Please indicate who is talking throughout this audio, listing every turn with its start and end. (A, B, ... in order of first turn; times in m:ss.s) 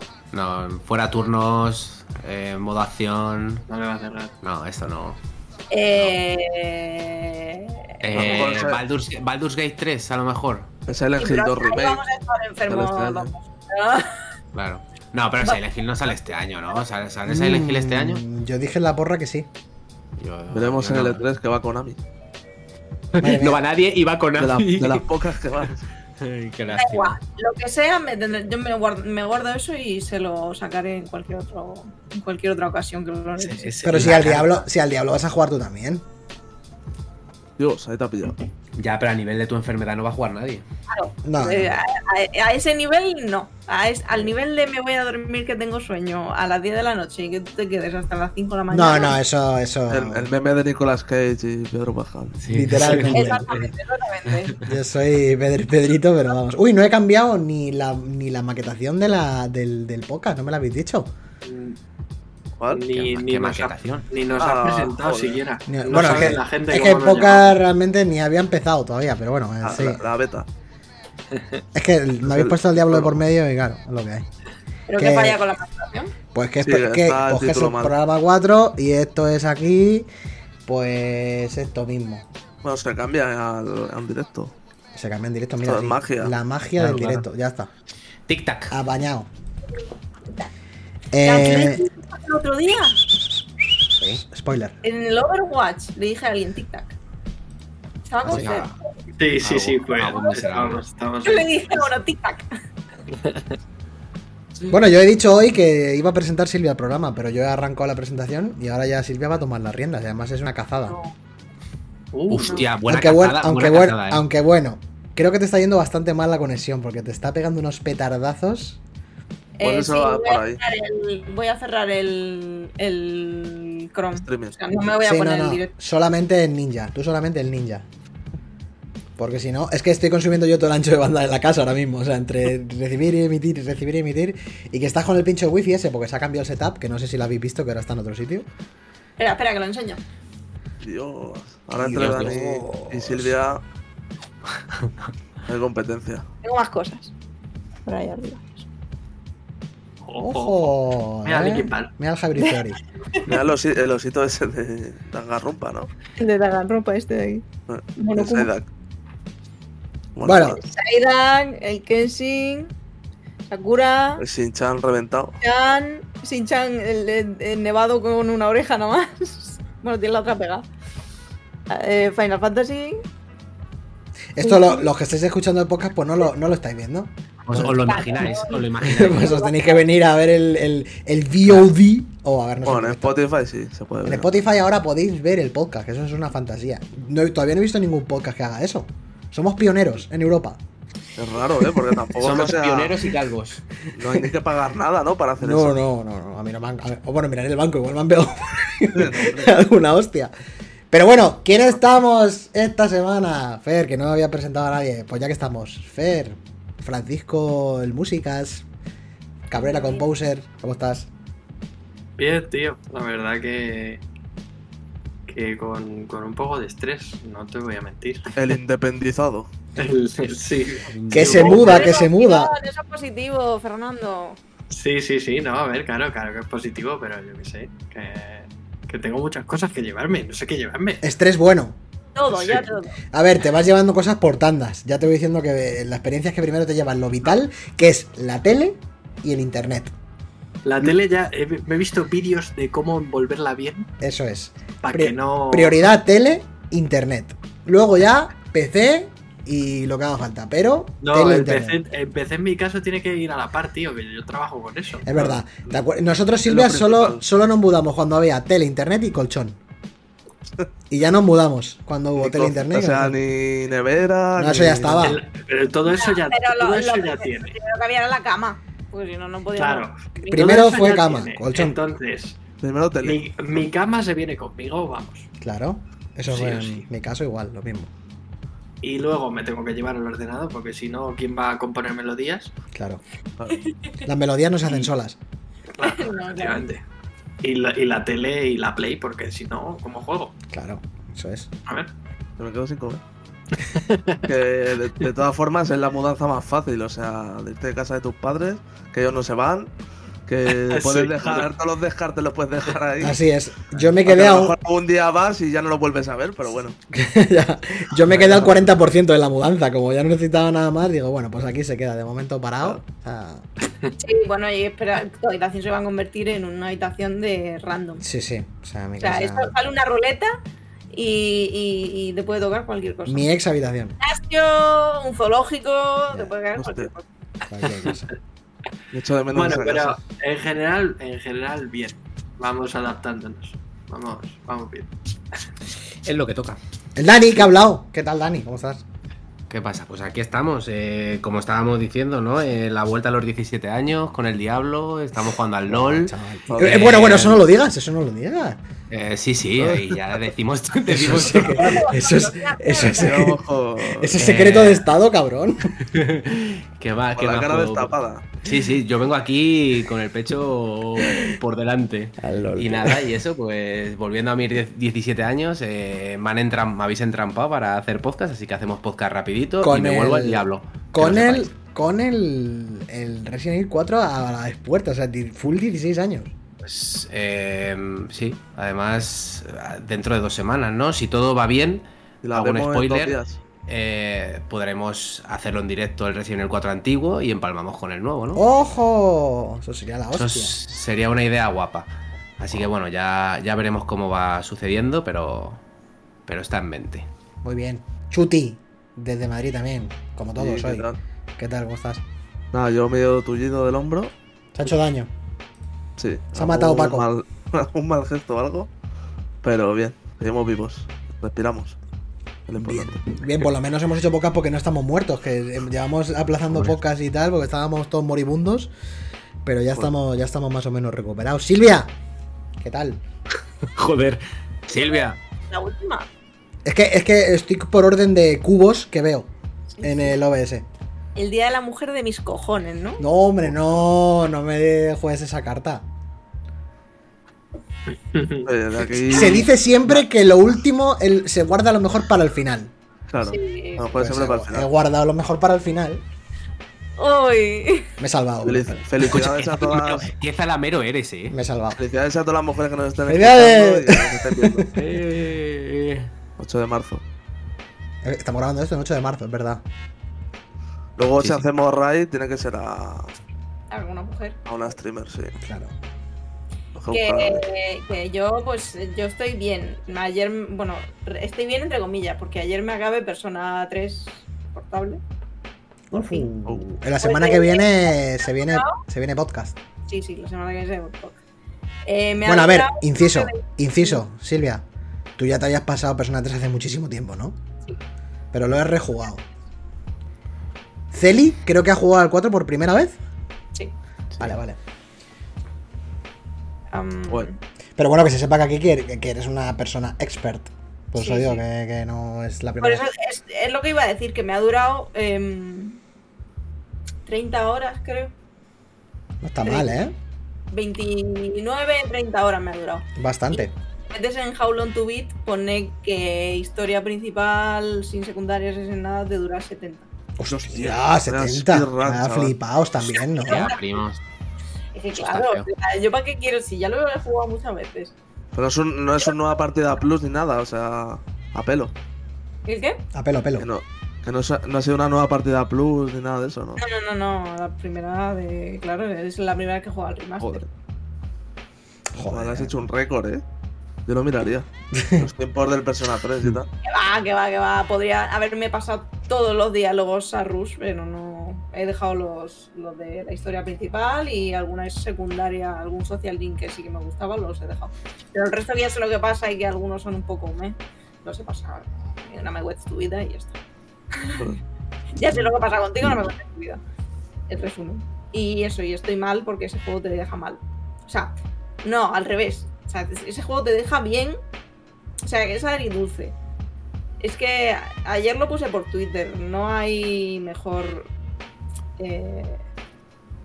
0:00.3-0:03.6 A
0:03.7-0:04.3 B
0:04.4-0:05.2 A
0:05.7-0:08.0 C
0:08.0-0:10.7 A
0:08.1-0:08.8 D
0:10.9-0:12.0 D
0:11.2-0:14.3 C
0:12.7-0:13.3 D
0:14.5-0:18.2 A
0:17.3-0:19.5 E
0:20.2-0:21.2 A
0:20.5-0:22.0 D
0:23.1-0:25.1 A
0:23.2-0:23.6 E
0:24.4-0:25.8 D
0:26.2-0:27.2 A
0:26.7-0:33.7 C
0:33.4-0:34.6 A
0:33.8-0:36.0 E
0:37.6-0:38.4 D
0:38.8-0:40.6 A
0:40.9-0:49.2 C
0:41.2-0:41.8 E
0:48.7-0:50.3 E
0:49.9-0:52.5 D
0:52.4-0:53.6 A
0:52.5-0:53.7 E
0:53.1-0:54.6 C
0:54.6-1:01.1 E
1:01.4-1:01.8 B
1:02.6-1:02.9 D
1:02.7-1:07.6 B
1:02.9-1:04.1 A
1:04.4-1:05.4 D
1:05.7-1:10.0 E
1:09.6-1:10.5 D
1:11.7-1:14.3 E
1:12.3-1:13.2 D
1:14.9-1:16.1 C
1:15.0-1:15.4 E
1:16.3-1:20.1 E
1:16.6-1:17.9 D
1:20.7-1:22.2 E
1:22.6-1:24.5 D
1:25.0-1:27.7 E
1:25.6-1:26.4 D
1:26.8-1:27.2 A
1:28.3-1:28.8 A
1:28.7-1:29.3 E
1:31.1-1:31.8 E
1:31.2-1:33.0 C
1:33.9-1:34.8 E
1:34.8-1:36.9 C
1:38.1-1:38.7 C
1:38.2-1:38.7 A
1:39.2-1:41.9 B
1:39.4-1:40.8 A
1:40.0-1:40.4 C
1:41.2-1:42.5 C
1:43.1-1:43.4 B
1:44.7-1:51.0 E
1:52.1-1:52.6 B
1:52.3-1:54.2 A
1:52.8-1:58.8 E
1:59.6-2:05.7 C
1:59.6-2:00.6 D
2:04.2-2:04.6 D
2:05.0-2:07.9 E
2:09.2-2:18.5 E
2:19.2-2:20.0 C
2:20.8-2:23.6 D
2:21.8-2:23.4 E
2:21.9-2:22.3 A
2:25.5-2:26.2 D
2:26.4-2:27.1 C
2:27.9-2:28.6 C
2:30.0-2:30.7 B
2:30.2-2:32.8 E
2:31.2-2:31.9 B
2:33.2-2:35.9 D
2:36.2-2:37.4 C
2:37.7-2:38.7 D
2:38.0-2:38.5 C
2:40.2-2:40.6 D
2:40.2-2:40.6 E
2:40.6-2:42.7 C
2:43.5-2:44.2 C
2:44.2-2:45.4 D
2:45.4-2:50.7 C
2:51.7-2:53.0 C
2:54.4-2:57.9 E
2:54.4-2:54.9 C
2:57.4-2:59.4 A
2:57.7-2:59.8 C
2:58.8-3:03.2 E
3:01.5-3:01.7 A
3:02.6-3:04.3 D
3:04.0-3:10.6 E
3:11.2-3:13.1 D
3:12.2-3:13.6 A
3:14.0-3:15.8 D
3:14.0-3:14.3 E
3:15.4-3:20.3 E
3:18.9-3:19.5 D
3:20.9-3:28.7 E
3:29.5-3:31.1 E
3:29.5-3:30.1 C
3:32.2-3:34.0 B
3:35.3-3:38.3 B
3:38.4-3:39.5 D
3:39.8-3:41.8 B
3:40.9-3:41.6 A
3:41.1-3:42.5 E
3:41.4-3:44.4 C
3:44.7-3:51.0 B
3:51.0-3:51.8 E
3:52.2-3:52.9 C
3:52.4-3:59.9 E
4:00.6-4:03.9 B
4:04.0-4:11.8 E
4:04.8-4:05.8 B
4:11.0-4:15.1 B
4:15.0-4:19.6 E
4:16.4-4:17.2 D
4:20.9-4:23.2 E
4:22.2-4:25.2 D
4:24.4-4:25.2 E
4:25.0-4:27.6 B
4:25.9-4:30.7 C
4:29.6-4:32.4 B
4:30.3-4:31.8 E
4:32.6-4:33.2 D
4:33.0-4:35.3 B
4:35.4-4:37.9 E
4:36.3-4:36.8 B
4:38.8-4:42.5 B
4:42.7-4:43.0 E
4:44.0-4:45.2 E
4:45.8-4:46.8 B
4:45.8-4:46.7 C
4:47.4-4:50.4 B
4:50.5-4:51.5 E
4:51.7-4:51.9 B
4:52.4-4:53.0 D
4:53.6-4:54.3 B
4:54.3-4:59.7 D
5:00.3-5:03.2 D
5:00.6-5:01.5 B
5:03.0-5:04.6 E
5:04.0-5:06.8 D
5:06.9-5:13.5 E
5:08.1-5:08.5 D
5:14.0-5:18.0 C
5:18.0-5:19.5 E
5:19.0-5:20.4 C
5:20.9-5:23.3 C
5:23.1-5:24.0 E
5:24.0-5:27.0 C
5:26.6-5:26.9 D
5:27.5-5:28.1 E
5:27.7-5:27.9 B
5:28.9-5:30.0 D
5:29.3-5:34.9 B
5:36.0-5:36.6 A
5:37.0-5:38.8 E
5:39.5-5:47.4 A
5:45.7-5:48.6 E
5:46.5-5:47.2 D
5:48.9-5:51.9 A
5:50.9-5:55.8 E
5:51.5-5:53.2 C
5:52.8-5:54.2 D
5:54.2-5:54.9 A
5:55.8-6:11.5 A
5:57.2-5:58.3 D
6:02.2-6:03.1 E
6:09.6-6:16.3 E
6:16.6-6:28.4 A
6:22.2-6:23.4 D
6:28.3-6:30.6 E
6:30.1-6:35.6 A
6:36.3-6:37.1 A
6:37.4-6:42.0 E
6:40.4-6:41.0 D
6:42.5-6:44.1 D
6:44.5-6:45.1 E
6:46.0-6:48.7 D
6:46.3-6:47.1 E
6:49.4-6:51.8 D
6:52.5-6:53.1 D
6:52.6-6:58.7 E
6:59.4-7:01.9 E
7:02.6-7:03.0 E
7:03.7-7:05.2 A
7:04.7-7:05.0 C
7:05.5-7:06.1 C
7:06.6-7:09.3 E
7:09.8-7:10.1 C
7:09.8-7:10.7 E
7:11.2-7:13.0 C
7:13.0-7:15.9 E
7:18.1-7:18.5 B
7:18.4-7:20.0 D
7:19.0-7:22.7 E
7:23.1-7:24.7 D
7:23.2-7:23.9 C
7:23.9-7:26.0 E
7:27.0-7:27.9 C
7:28.0-7:29.2 E
7:28.4-7:30.1 D
7:29.0-7:31.4 A
7:31.3-7:31.8 E
7:31.8-7:34.7 D
7:33.0-7:34.7 E
7:34.7-7:36.1 A
7:36.4-7:37.0 D
7:38.0-7:39.6 E
7:41.0-7:43.1 D
7:41.2-7:41.4 A
7:43.7-7:44.4 C
7:44.4-7:45.4 D
7:45.4-7:45.7 E
7:46.8-7:47.4 D
7:46.9-7:55.0 C
7:55.9-7:59.6 E
7:57.0-7:58.8 C
7:59.9-8:01.2 C
8:01.9-8:04.0 C
8:02.2-8:04.6 E
8:05.2-8:07.4 E
8:08.3-8:09.2 E
8:10.9-8:13.0 E
8:14.2-8:14.6 E
8:16.7-8:17.4 C
8:17.8-8:22.9 E
8:21.0-8:21.4 C
8:22.6-8:25.8 C
8:27.1-8:28.1 C
8:29.2-8:30.0 E
8:29.4-8:29.8 C
8:30.5-8:39.9 C
8:33.0-8:33.5 E
8:40.2-8:43.5 E
8:40.3-8:42.4 D
8:43.2-8:43.6 C
8:43.3-8:44.0 A
8:44.7-8:48.0 C
8:45.0-8:45.5 A
8:48.3-8:51.7 D
8:52.5-8:52.8 C
8:52.9-8:53.5 E
8:53.4-8:56.6 D
8:56.6-9:00.4 C
9:00.2-9:00.5 D
9:01.9-9:02.5 E
9:02.0-9:03.2 D
9:03.9-9:06.5 D
9:04.7-9:05.1 E
9:06.6-9:23.4 C
9:23.9-9:24.3 C
9:25.0-9:26.6 C
9:27.3-9:34.2 C
9:35.0-9:36.2 C
9:37.0-9:40.9 C
9:41.8-9:42.4 C